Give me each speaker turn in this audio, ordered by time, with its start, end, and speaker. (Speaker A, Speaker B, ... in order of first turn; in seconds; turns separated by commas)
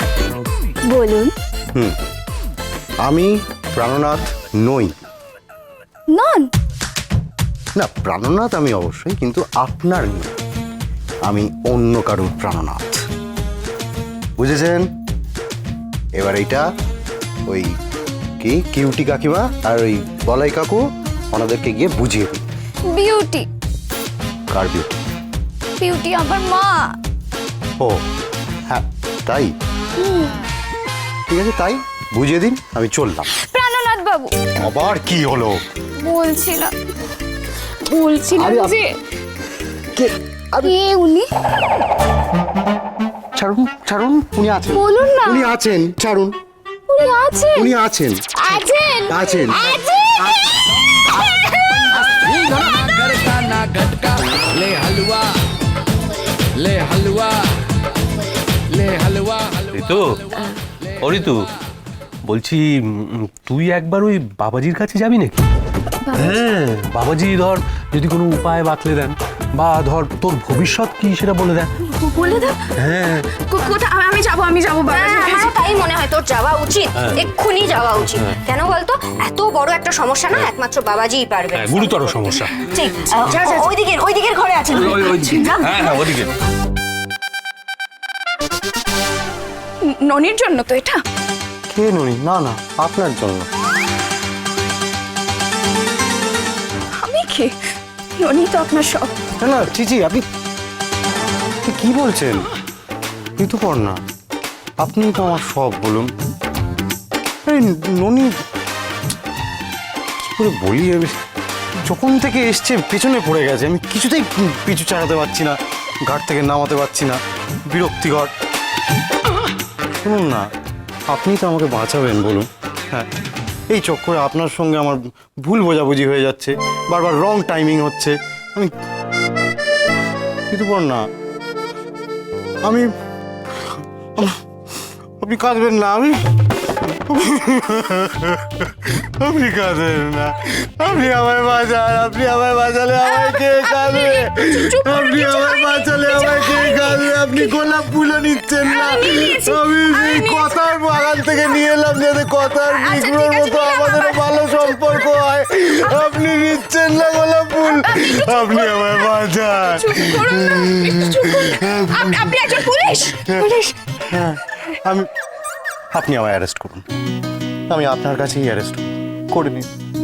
Speaker A: 0.9-1.3, Speaker B: 3.0-5.0, Speaker A: 6.1-6.5, Speaker B: 7.8-10.3, Speaker B: 11.2-13.0, Speaker B: 14.4-14.9, Speaker B: 16.1-16.6, Speaker B: 18.4-20.8, Speaker B: 21.3-22.4, Speaker A: 22.9-23.5, Speaker B: 24.5-25.0, Speaker A: 25.8-26.9, Speaker B: 28.7-29.5, Speaker A: 30.0-30.3, Speaker B: 31.3-33.3, Speaker A: 33.4-34.4, Speaker B: 34.5-35.6, Speaker A: 36.0-36.7, Speaker A: 37.8-38.9, Speaker B: 38.3-38.8, Speaker B: 39.9-40.7, Speaker A: 40.5-41.3, Speaker B: 43.4-46.3, Speaker A: 44.7-45.5, Speaker A: 46.9-47.7, Speaker B: 47.5-48.2, Speaker A: 48.3-52.1, Speaker B: 49.1-49.7, Speaker C: 59.7-60.2, Speaker C: 61.0-61.5, Speaker C: 62.2-65.5, Speaker A: 66.0-66.3, Speaker C: 66.1-71.7, Speaker A: 71.8-72.7, Speaker C: 72.8-73.2, Speaker A: 73.3-75.5, Speaker D: 74.9-85.9, Speaker C: 78.1-78.3, Speaker C: 81.5-82.6, Speaker C: 84.8-86.3, Speaker A: 89.8-91.0, Speaker B: 91.7-93.5, Speaker A: 97.0-97.5, Speaker A: 98.2-99.1, Speaker B: 99.4-100.2, Speaker B: 101.6-102.5, Speaker B: 103.4-104.0, Speaker B: 104.8-106.1, Speaker B: 107.5-108.3, Speaker B: 110.2-111.1, Speaker B: 111.8-115.5, Speaker B: 116.1-118.3, Speaker B: 120.0-120.4, Speaker B: 121.1-123.1, Speaker B: 123.7-128.7, Speaker B: 130.5-131.0, Speaker B: 132.6-132.9, Speaker B: 133.6-134.4, Speaker B: 135.2-136.1, Speaker B: 136.8-163.4, Speaker A: 143.0-147.6, Speaker A: 148.6-150.6, Speaker A: 152.5-155.1, Speaker A: 157.6-163.9, Speaker B: 164.1-165.1, Speaker B: 165.9-166.8, Speaker B: 167.7-169.7